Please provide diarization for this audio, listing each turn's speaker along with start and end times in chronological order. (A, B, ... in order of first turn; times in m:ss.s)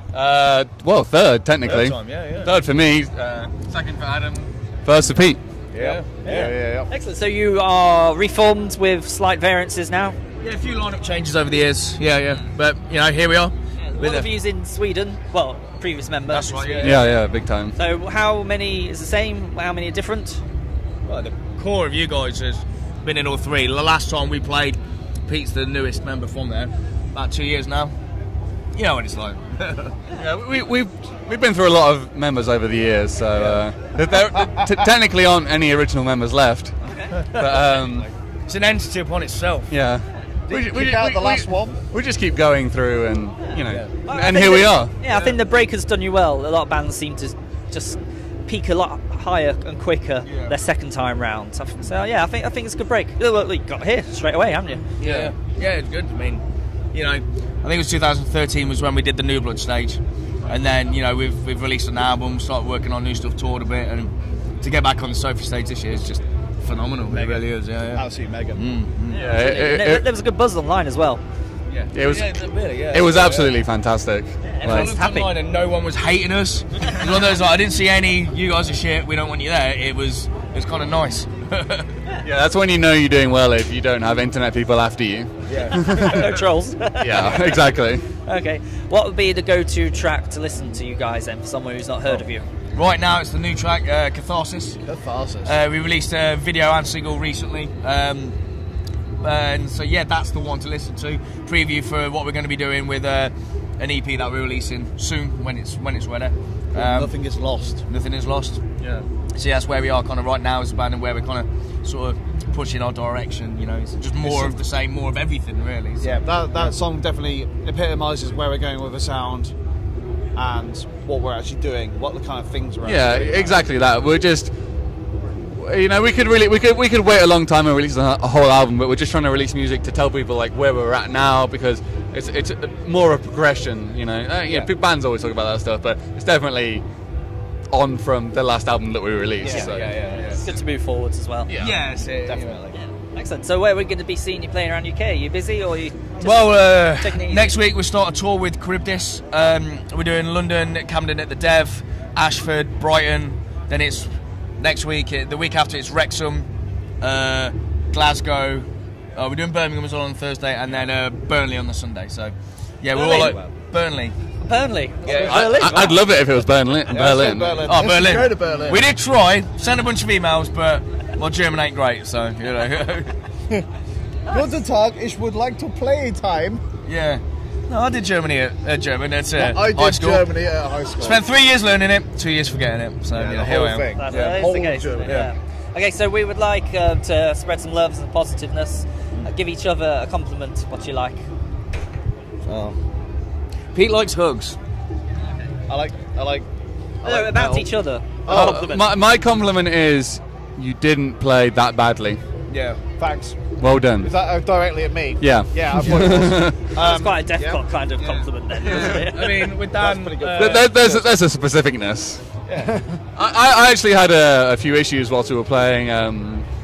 0:00.1-0:05.4 A
0:01.6-0:02.5 B
0:05.7-0:06.6 B
0:05.8-0:06.9 C
0:06.9-0:10.2 D
0:10.4-0:14.3 B
0:13.9-0:17.1 D
0:16.3-0:17.1 B
0:16.8-0:17.8 A
0:17.7-0:20.4 D
0:21.0-0:27.9 B
0:28.7-0:30.0 B
0:30.1-0:36.8 A
0:33.3-0:33.6 C
0:37.2-0:39.7 B
0:37.3-0:38.1 A
0:39.7-0:44.9 A
0:40.5-0:41.8 C
0:43.7-0:43.9 B
0:44.1-0:54.8 D
0:45.1-0:45.4 B
0:50.2-0:50.5 B
0:55.0-1:09.2 B
0:55.0-0:55.3 A
1:07.0-1:08.6 C
1:09.1-1:10.0 A
1:09.2-1:11.2 D
1:11.7-1:13.5 B
1:11.9-1:12.3 A
1:12.9-1:14.9 A
1:14.6-1:22.1 B
1:14.6-1:15.3 D
1:22.2-1:26.2 A
1:25.5-1:26.4 B
1:26.0-1:27.6 D
1:27.0-1:28.0 A
1:28.2-1:32.4 D
1:32.7-1:34.8 B
1:34.8-1:35.5 C
1:35.4-1:38.4 B
1:39.2-1:47.1 B
1:46.7-1:47.8 C
1:47.9-1:48.6 B
1:48.8-1:49.0 A
1:49.3-1:56.7 B
1:54.1-1:54.6 C
1:56.0-1:59.5 C
2:00.3-2:03.6 C
2:02.8-2:04.5 A
2:05.4-2:16.8 A
2:17.7-2:19.9 A
2:19.4-2:19.7 C
2:19.4-2:20.4 B
2:19.5-2:21.5 D
2:21.5-2:21.8 A
2:21.6-2:22.8 B
2:22.2-2:22.6 C
2:22.7-2:27.5 D
2:26.2-2:36.5 B
2:37.0-2:44.2 B
2:42.9-2:43.3 D
2:44.4-2:46.0 D
2:45.0-2:45.7 B
2:45.1-2:45.5 C
2:45.2-2:47.8 A
2:46.9-2:48.9 C
2:47.6-2:53.2 B
2:54.3-2:56.6 C
2:56.8-3:00.4 B
2:59.3-3:01.2 C
3:00.9-3:04.5 B
3:03.1-3:05.3 C
3:04.0-3:11.2 D
3:05.0-3:05.3 B
3:12.4-3:12.8 B
3:13.7-3:14.6 B
3:15.7-3:16.5 C
3:17.0-3:17.7 C
3:17.0-3:18.8 D
3:18.2-3:18.6 C
3:18.3-3:22.2 A
3:22.5-3:22.8 B
3:23.0-3:27.6 C
3:23.6-3:24.1 A
3:25.2-3:26.5 A
3:26.7-3:29.4 D
3:28.0-3:30.8 B
3:29.7-3:31.1 C
3:30.3-3:32.3 A
3:32.6-3:33.0 C
3:33.2-3:36.5 A